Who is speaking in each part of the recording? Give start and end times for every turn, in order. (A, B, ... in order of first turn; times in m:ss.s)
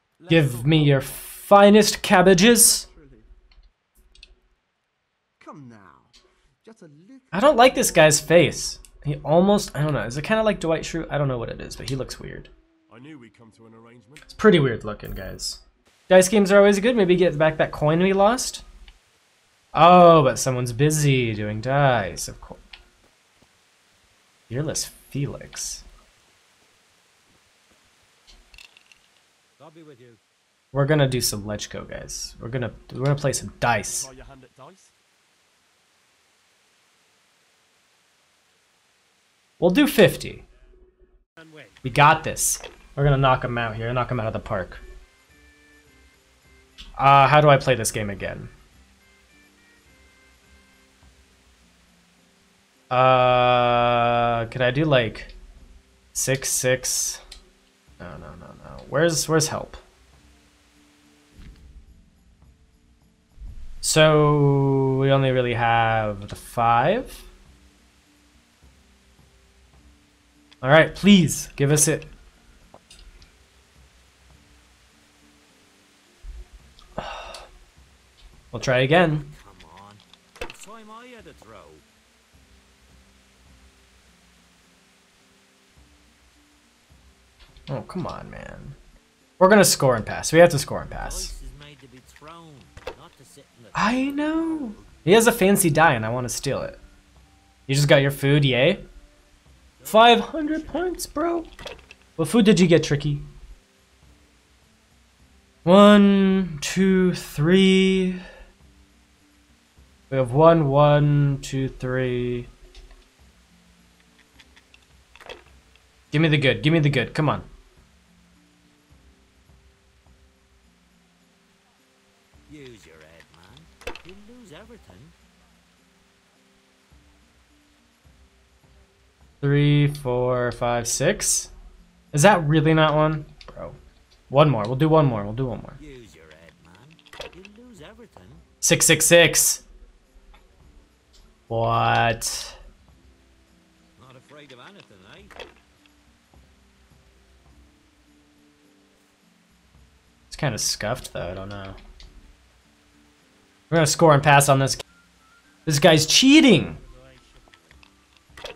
0:00.2-0:01.3 A
0:00.3-0:02.9 B
0:02.9-0:03.2 C
0:05.4-0:06.1 C
0:06.6-0:07.5 C
0:07.3-0:12.5 B
0:12.9-0:14.4 A
0:14.3-0:18.6 B
0:19.7-0:22.6 B
0:24.5-0:25.8 B
0:29.6-0:30.2 D
0:30.7-0:34.1 B
0:33.9-0:34.9 A
0:39.6-0:40.4 B
0:41.4-0:41.7 A
0:41.8-0:44.8 B
0:47.0-0:48.5 B
0:52.9-0:55.4 B
0:56.1-0:57.2 B
0:58.0-0:59.8 B
1:03.8-1:07.2 B
1:10.6-1:12.1 B
1:17.0-1:17.4 B
1:18.5-1:19.3 B
1:18.9-1:21.8 D
1:27.7-1:28.8 B
1:29.4-1:31.3 B
1:30.9-1:35.0 D
1:33.7-1:36.8 B
1:37.7-1:38.8 B
1:39.8-1:41.1 D
1:39.8-1:41.5 B
1:42.2-1:43.3 B
1:45.6-1:48.2 B
1:50.1-1:52.5 B
1:56.1-1:57.5 B
2:02.5-2:05.1 D
2:09.4-2:11.5 B
2:12.1-2:13.8 B
2:14.3-2:15.8 B
2:15.8-2:18.4 D
2:18.6-2:19.6 B
2:21.5-2:22.6 B
2:24.0-2:25.4 D
2:30.3-2:31.8 B
2:33.7-2:34.8 B
2:35.6-2:36.8 B
2:36.8-2:37.7 D